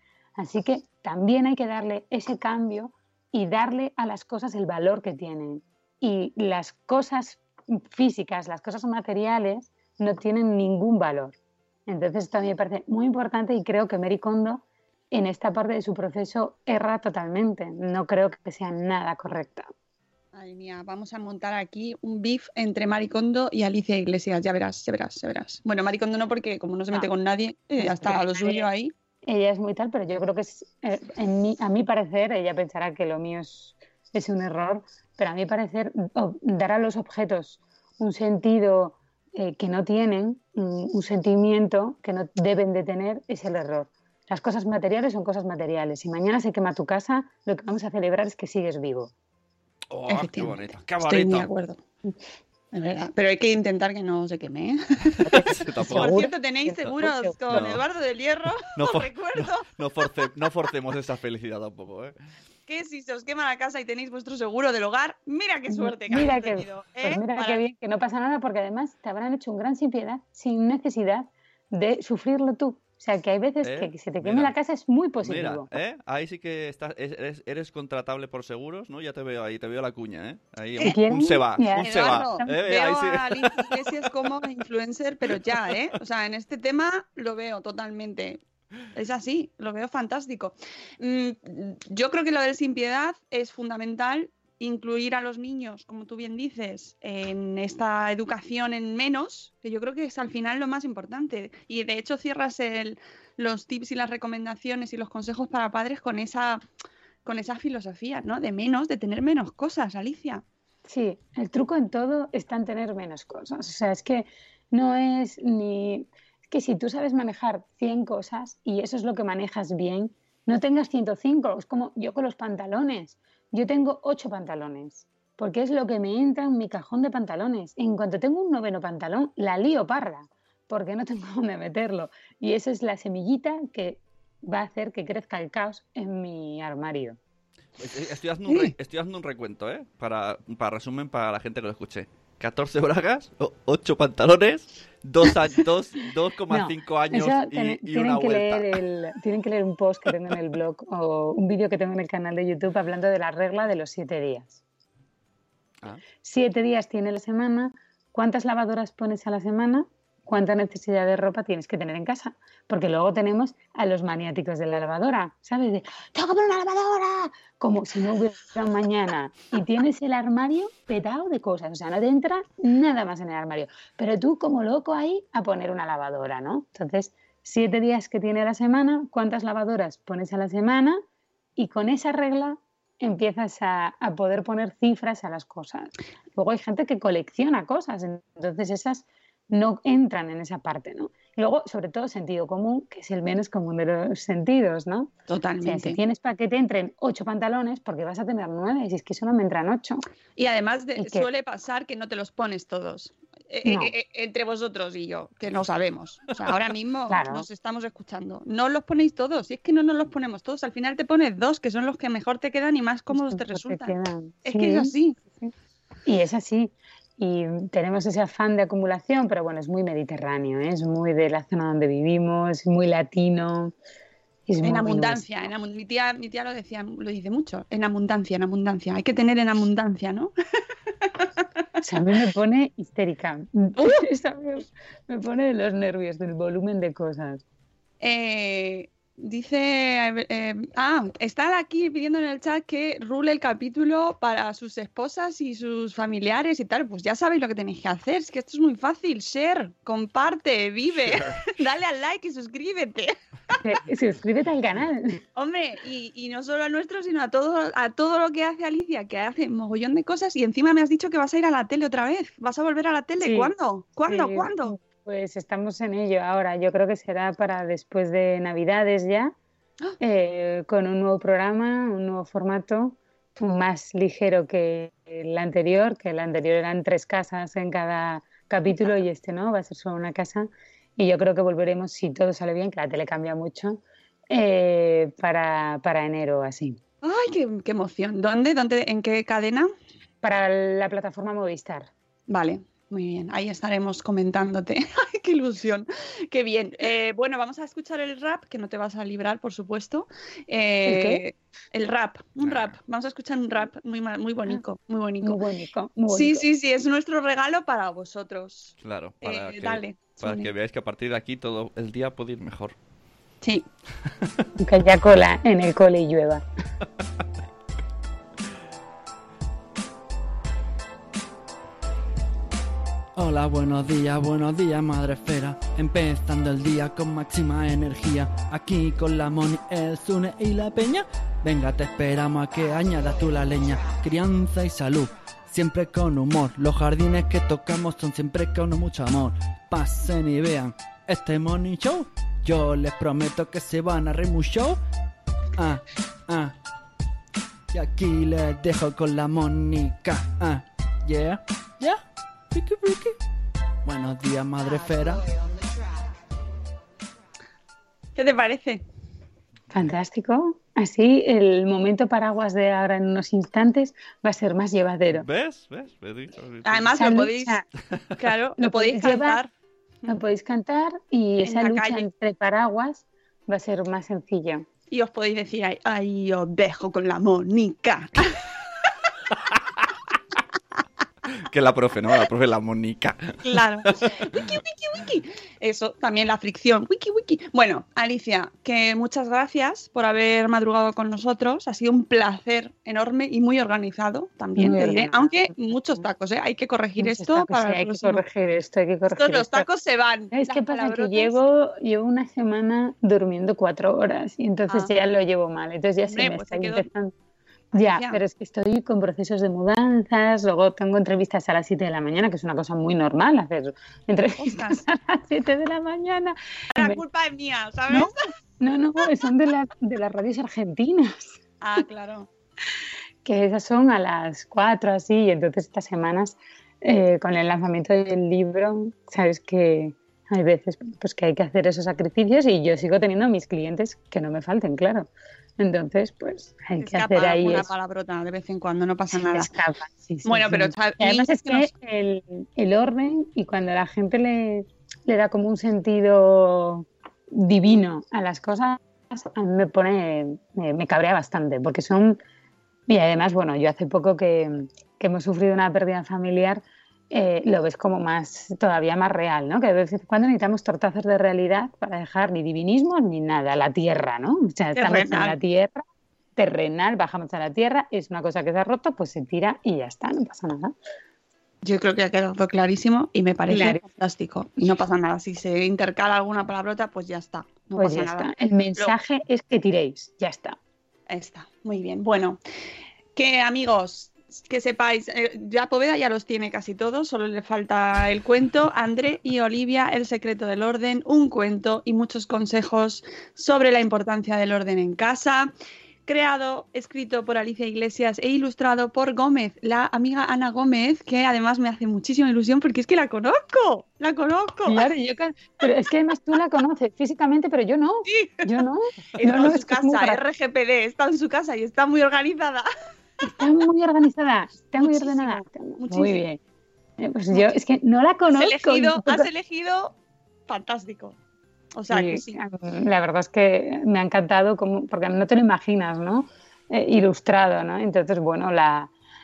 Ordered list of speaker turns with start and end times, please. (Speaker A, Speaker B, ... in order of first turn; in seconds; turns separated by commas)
Speaker A: 0.4-11.4, Speaker A: 11.9-19.7, Speaker B: 20.3-28.9, Speaker A: 27.8-28.7, Speaker A: 29.2-49.1, Speaker C: 49.9-51.5, Speaker B: 50.1-51.8, Speaker B: 52.7-59.7, Speaker C: 55.2-56.2, Speaker A: 55.3-57.5, Speaker C: 57.5-57.8, Speaker C: 58.8-62.1, Speaker B: 62.7-67.6, Speaker A: 65.7-75.7, Speaker C: 73.6-74.5, Speaker C: 75.2-84.1, Speaker A: 80.8-82.5, Speaker B: 81.8-88.4, Speaker B: 88.9-106.6, Speaker B: 107.2-110.4, Speaker A: 110.9-137.2, Speaker C: 137.8-148.7, Speaker B: 138.5-138.7, Speaker A: 146.5-154.6, Speaker A: 156.2-181.0, Speaker A: 181.6-195.1, Speaker B: 195.3-196.0, Speaker A: 195.6-200.0, Speaker B: 200.4-215.2, Speaker A: 201.0-201.3, Speaker A: 203.7-203.9, Speaker A: 207.1-207.5, Speaker A: 213.1-215.5, Speaker A: 216.1-223.7, Speaker A: 224.5-225.5, Speaker B: 224.6-230.3, Speaker A: 231.8-237.4, Speaker B: 238.0-253.6, Speaker A: 253.6-255.2, Speaker B: 255.4-264.8, Speaker A: 263.2-263.5, Speaker A: 264.1-269.4, Speaker A: 270.0-286.8, Speaker B: 287.0-289.7, Speaker A: 290.2-291.9, Speaker B: 292.3-305.4, Speaker A: 300.9-301.2, Speaker C: 302.4-302.8, Speaker A: 305.2-306.5, Speaker B: 306.1-310.5, Speaker C: 308.8-312.8, Speaker A: 314.6-316.4, Speaker D: 323.2-344.8, Speaker D: 345.6-346.5, Speaker D: 347.7-353.2, Speaker D: 353.9-355.2, Speaker B: 358.2-358.8, Speaker A: 359.7-365.3, Speaker C: 365.1-367.0, Speaker B: 366.6-367.6, Speaker A: 366.9-367.6, Speaker B: 368.2-369.5, Speaker A: 368.6-369.4, Speaker A: 370.1-374.6, Speaker B: 371.4-372.1, Speaker B: 374.9-378.4, Speaker C: 381.5-384.5, Speaker B: 383.5-398.2, Speaker A: 394.6-395.3, Speaker A: 397.0-399.7, Speaker B: 399.1-401.4, Speaker A: 400.3-407.1, Speaker B: 406.1-406.9, Speaker A: 407.7-417.0, Speaker B: 407.8-408.2, Speaker B: 414.4-414.8, Speaker B: 416.7-418.1, Speaker A: 417.9-421.4, Speaker B: 421.6-422.3, Speaker A: 423.2-437.7, Speaker B: 436.8-439.5, Speaker A: 439.1-452.2, Speaker B: 440.3-441.7, Speaker A: 452.9-465.8, Speaker B: 464.8-465.4, Speaker A: 466.4-470.7, Speaker B: 471.6-478.9, Speaker A: 473.5-473.8, Speaker A: 477.8-480.6, Speaker B: 481.1-482.4, Speaker B: 483.1-495.5, Speaker B: 496.1-504.9, Speaker A: 504.7-510.2, Speaker B: 508.1-508.5, Speaker B: 509.2-512.7, Speaker A: 513.2-516.4, Speaker B: 514.8-516.2, Speaker A: 517.0-519.3, Speaker B: 518.3-519.9, Speaker B: 520.5-521.2, Speaker B: 521.8-522.4, Speaker A: 521.9-528.9